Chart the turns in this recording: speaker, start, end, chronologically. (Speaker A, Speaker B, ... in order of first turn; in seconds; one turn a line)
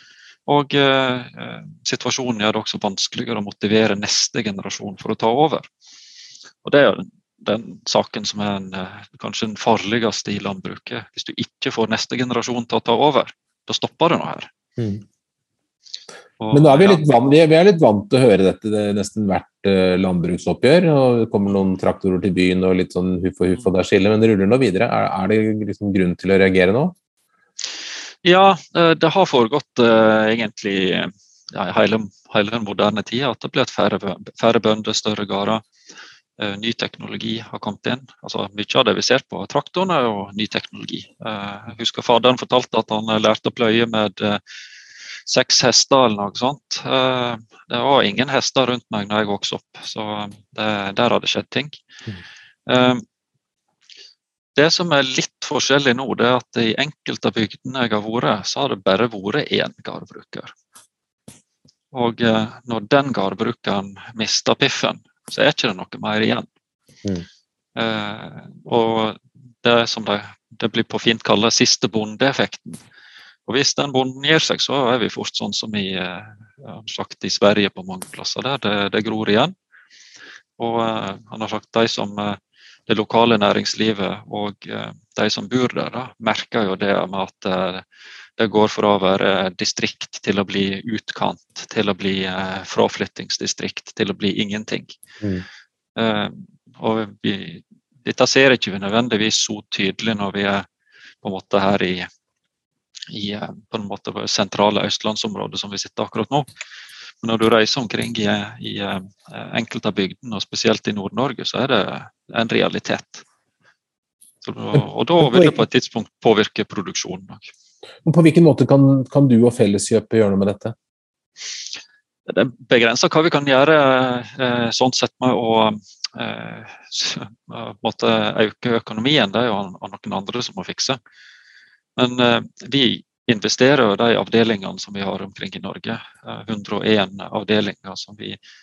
Speaker A: 0.5-5.7
Speaker A: 6.6-14.5
Speaker B: 14.8-15.0
Speaker A: 16.4-17.0
Speaker B: 16.5-26.9
Speaker A: 28.2-35.6
Speaker A: 36.4-44.4
Speaker A: 45.3-51.8
Speaker A: 52.7-53.0
Speaker A: 54.5-60.5
Speaker A: 61.9-66.5
Speaker A: 67.8-72.8
Speaker A: 73.5-79.5
Speaker A: 80.6-87.8
Speaker A: 88.4-95.0
Speaker A: 96.0-100.7
Speaker A: 101.2-102.1
Speaker A: 103.1-106.5
Speaker A: 107.2-113.2
Speaker A: 114.4-117.5
Speaker B: 115.2-115.5
Speaker B: 118.0-120.7
Speaker A: 122.3-131.0
Speaker A: 132.0-138.4